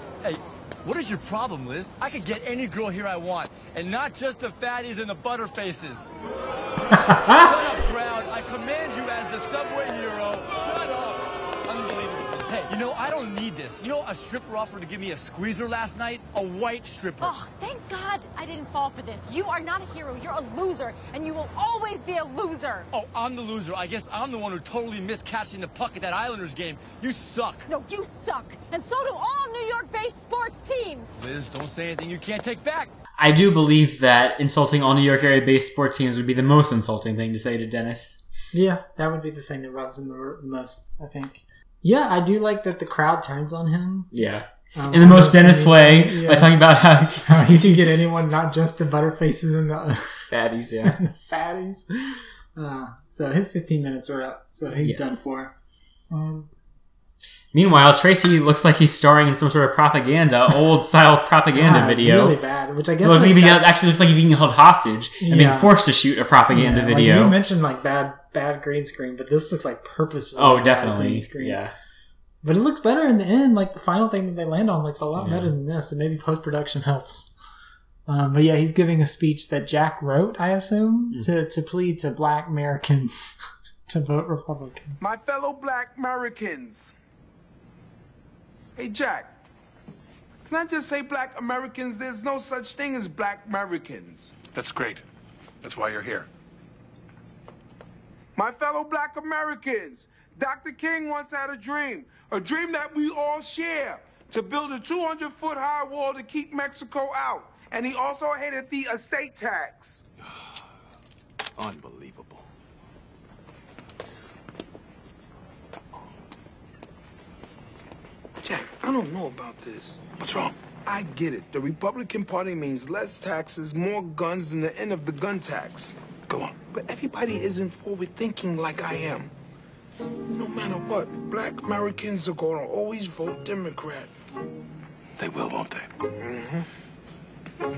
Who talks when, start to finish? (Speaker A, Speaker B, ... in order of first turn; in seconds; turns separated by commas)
Speaker A: 0.2-6.1, Speaker B: 7.0-7.5, Speaker A: 7.3-17.4, Speaker C: 17.2-22.9, Speaker A: 22.9-27.7, Speaker C: 27.7-31.2, Speaker A: 31.1-32.9, Speaker D: 33.1-38.2, Speaker B: 38.5-44.1, Speaker D: 44.1-47.8, Speaker B: 44.7-46.6, Speaker B: 47.2-50.3, Speaker D: 50.3-51.0, Speaker B: 50.8-55.5, Speaker D: 54.8-55.2, Speaker B: 56.1-56.5, Speaker D: 57.5-62.4, Speaker B: 61.5-63.7, Speaker D: 63.0-67.4, Speaker B: 65.2-65.7, Speaker B: 66.5-71.6, Speaker D: 70.3-71.7, Speaker B: 72.4-77.3, Speaker D: 75.2-75.5, Speaker B: 78.1-83.4, Speaker B: 83.9-85.0, Speaker E: 85.0-86.9, Speaker E: 88.8-89.3, Speaker E: 90.5-94.3, Speaker F: 94.5-95.0, Speaker F: 95.6-96.3, Speaker E: 98.3-110.0, Speaker A: 111.6-112.4, Speaker E: 118.4-120.0, Speaker F: 120.2-120.6, Speaker E: 120.8-126.0, Speaker E: 126.5-129.3, Speaker E: 130.3-134.1, Speaker F: 135.2-135.9, Speaker E: 136.2-136.7